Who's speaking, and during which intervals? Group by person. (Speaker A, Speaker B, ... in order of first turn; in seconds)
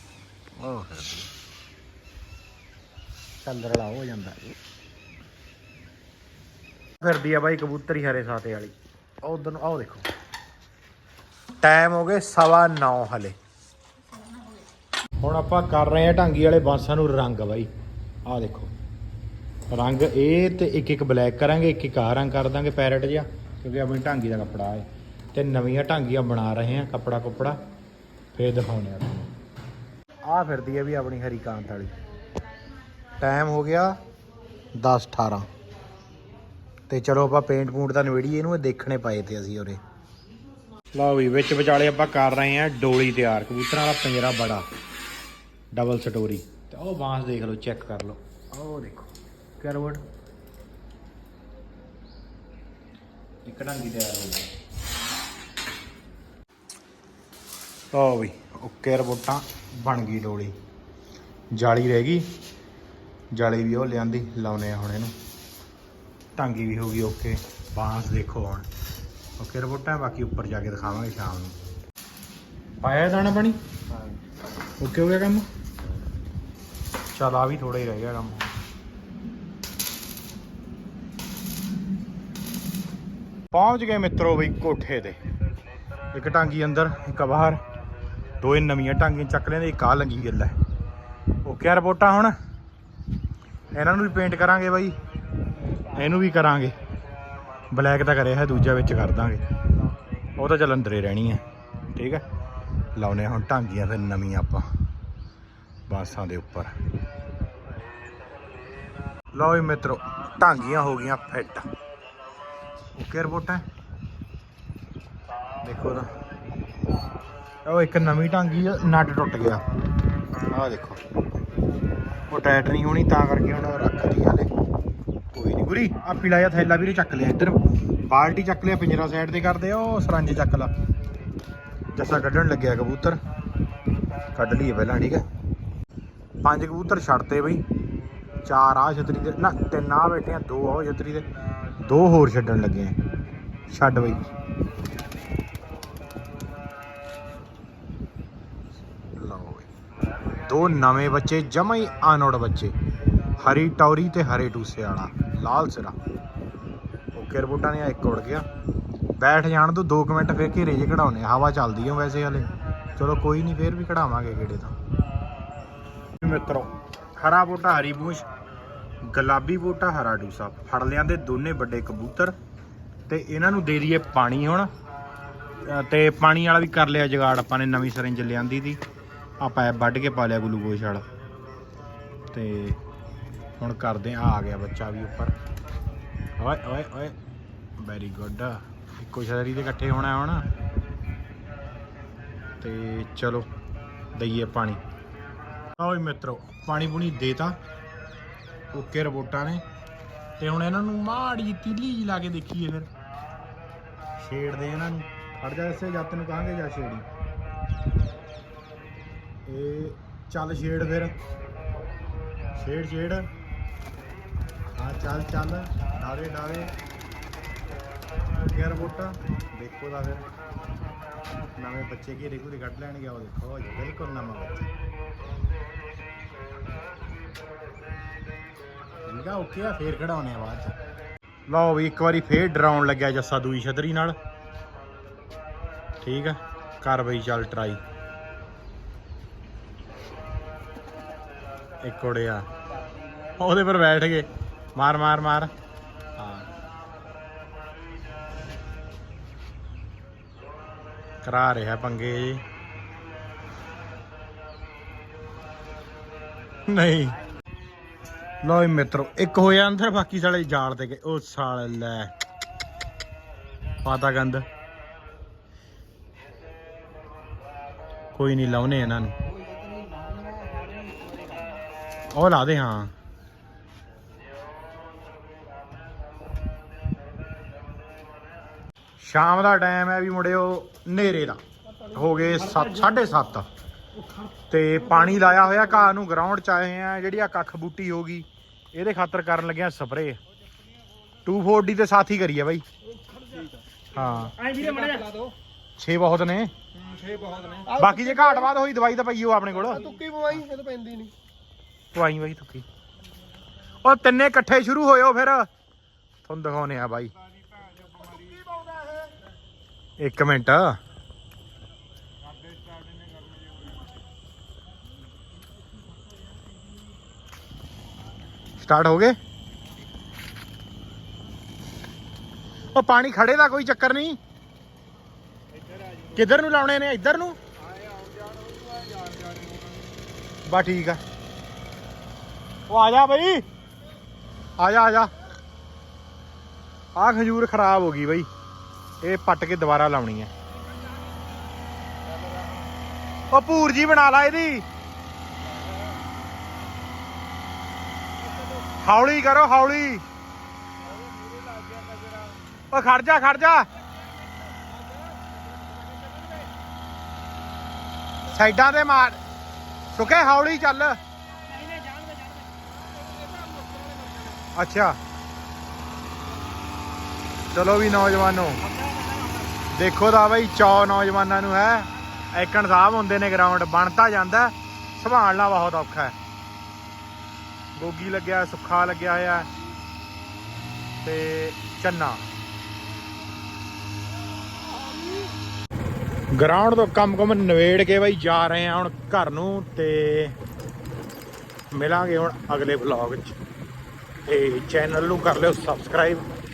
Speaker A: 0.6-1.3, 3.4-4.5, 7.0-10.1, 11.6-13.4, 15.2-17.7, 18.2-18.7, 19.7-27.6, 28.3-29.3, 30.2-31.9, 33.2-34.0, 34.8-35.5, 36.9-39.8, 40.9-44.7, 45.7-50.0, 53.5-54.5, 57.9-60.6, 61.5-62.3, 63.3-65.1, 66.4-68.7, 69.4-71.6, 72.8-73.6, 74.8-75.5, 77.1-78.5, 83.5-85.2, 86.1-87.6, 88.4-90.6, 91.5-92.3, 93.7-95.0, 95.9-96.8, 97.7-99.4, 100.4-101.4, 102.0-102.2, 103.0-104.7, 105.9-106.7, 109.3-111.7, 113.0-113.6, 115.6-116.1, 117.7-119.6, 120.4-121.0, 122.3-124.5, 125.3-130.7, 131.9-133.2, 134.3-135.3, 136.4-137.6, 138.4-141.3, 141.8-143.0, 143.7-144.2, 149.2-149.7, 150.4-152.8, 153.4-156.0, 157.1-158.5, 159.2-164.8, 166.2-168.3, 169.0-172.3, 173.1-174.7, 175.6-178.8, 179.4-181.1, 182.3-182.8, 183.6-185.3, 186.4-187.2, 187.8-190.5, 192.6-193.5, 194.1-194.8, 195.8-197.6, 198.7-199.6, 200.4-202.9, 204.2-207.1, 209.5-211.2, 212.6-213.3, 214.8-216.7, 218.4-220.3, 221.6-224.7, 229.1-230.8, 231.5-234.2, 236.0-237.8, 241.8-242.5, 243.3-245.5, 246.2-246.5, 251.2-252.4, 256.7-257.2, 258.4-262.1, 263.8-264.5, 268.1-269.2, 272.1-272.9, 279.0-283.5, 284.5-290.2, 291.2-292.6, 293.9-294.6, 295.8-296.5, 297.6-300.4, 301.9-302.7, 303.7-305.5, 306.2-307.1, 310.0-310.8, 318.6-319.2, 322.6-324.2, 326.1-327.4, 330.5-331.0, 332.7-333.4, 334.6-335.1, 337.0-338.3, 339.0-340.3, 343.3-344.7, 348.7-350.1, 352.7-353.7, 358.3-359.2, 359.9-361.0, 364.5-365.0, 367.5-368.7, 369.7-376.2, 377.8-379.5, 381.0-382.2, 386.3-390.4, 391.7-393.4, 394.3-396.3
Speaker B: 269.3-271.6, 294.4-295.3, 296.9-297.7, 300.0-301.1, 307.9-309.0, 312.5-313.2, 325.7-325.9, 327.6-329.9, 351.3-352.3, 356.0-356.4, 361.5-362.5, 363.0-364.3, 369.0-369.4